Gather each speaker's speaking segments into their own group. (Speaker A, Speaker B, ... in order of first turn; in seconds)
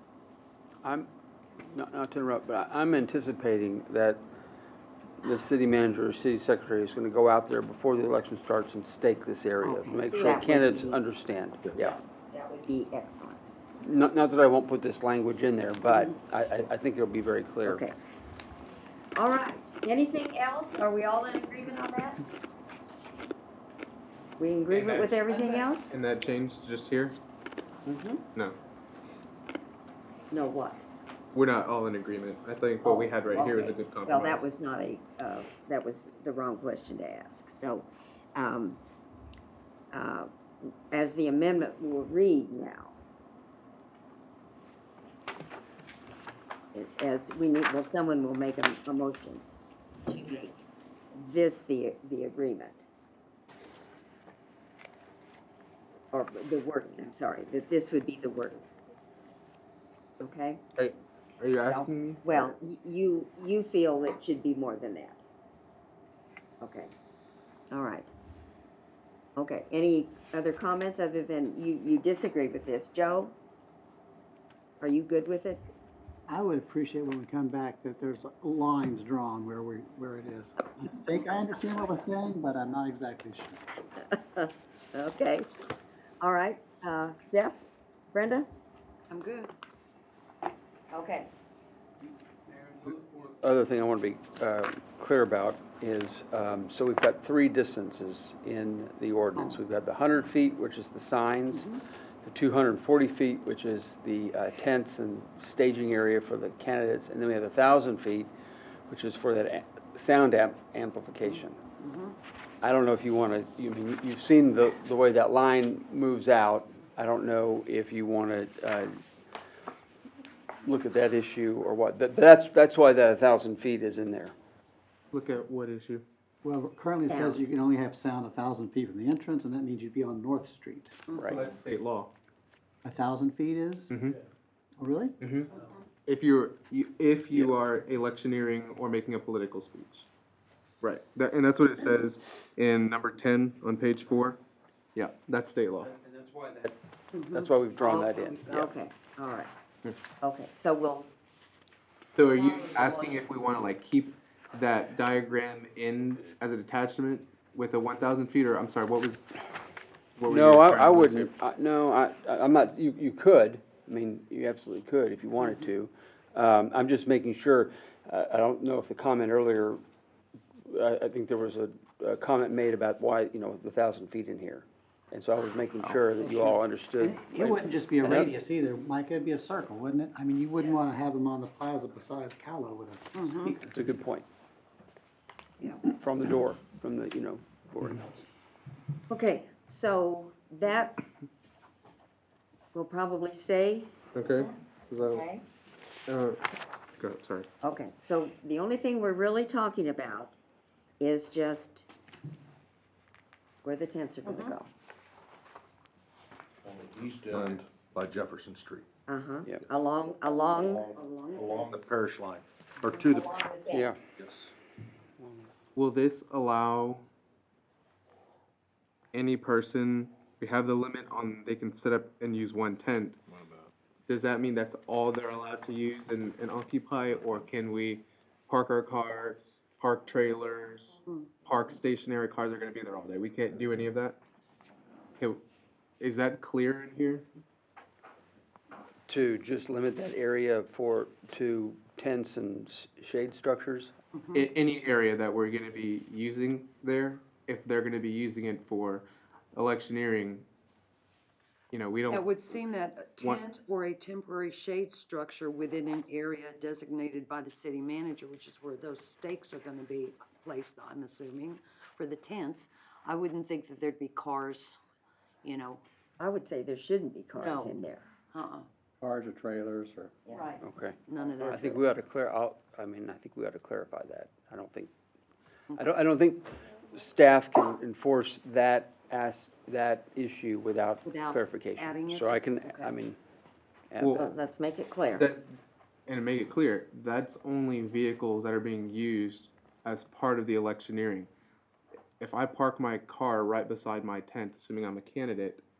Speaker A: 0.8-1.1, 1.7-4.2, 5.2-12.0, 13.8-17.9, 92.5-101.7, 102.2-108.3, 108.9-111.6, 112.6-119.0, 120.6-124.3, 131.1-131.4, 145.8-146.8, 147.3-148.7, 160.3-169.8, 170.7-178.3, 183.5-184.2, 185.9-188.1, 213.7-214.0, 215.2-215.5, 239.1-243.9, 270.6-274.9, 275.8-283.2, 283.9-284.3
Speaker B: 9.6-11.0, 11.8-13.4, 17.6-17.9, 19.1-22.2, 24.4-25.9, 27.9-28.2, 30.3-30.8, 32.8-38.8, 39.9-40.3, 40.9-43.0, 46.7-49.4, 50.0-50.6, 51.1-52.8, 56.1-58.6, 60.2-60.6, 61.6-65.2, 66.6-66.9, 67.7-68.1, 69.3-73.3, 74.8-75.7, 84.0-85.5, 86.2-88.5, 90.9-91.3, 127.0-127.5, 147.8-149.5, 150.2-151.1, 152.3-153.2, 189.1-191.0, 192.7-193.9, 195.1-195.4, 197.6-200.3, 201.0-201.8, 203.6-204.7, 209.1-211.9, 212.8-214.1, 266.2-268.1, 270.3-270.6, 284.1-285.3
Speaker C: 24.7-27.2, 31.3-34.5, 60.8-62.5, 125.1-126.0, 131.3-132.1, 133.9-134.2, 135.2-135.5, 136.1-140.1, 140.8-144.4, 144.9-145.9, 152.2-159.3, 160.2-161.3, 194.1-195.2, 196.1-196.4, 197.0-197.5, 215.8-217.1, 219.1-223.2, 224.1-234.2, 236.0-237.3, 244.3-250.5, 251.7-252.2, 285.1-291.3, 292.2-295.6
Speaker D: 76.3-83.6, 126.4-131.0, 132.8-133.9, 134.8-135.1, 176.2-183.7, 269.0-270.1
Speaker E: 89.1-89.5, 101.5-101.8, 111.2-112.2, 147.1-147.5, 180.6-180.9, 183.1-183.6, 204.2-204.5, 244.2-244.5, 252.1-264.8, 265.4-265.8, 267.4-267.8, 268.3-268.7, 271.1-272.0, 281.0-282.9
Speaker F: 206.6-208.8, 210.5-213.3, 214.2-214.5, 223.3-223.7, 227.1-227.4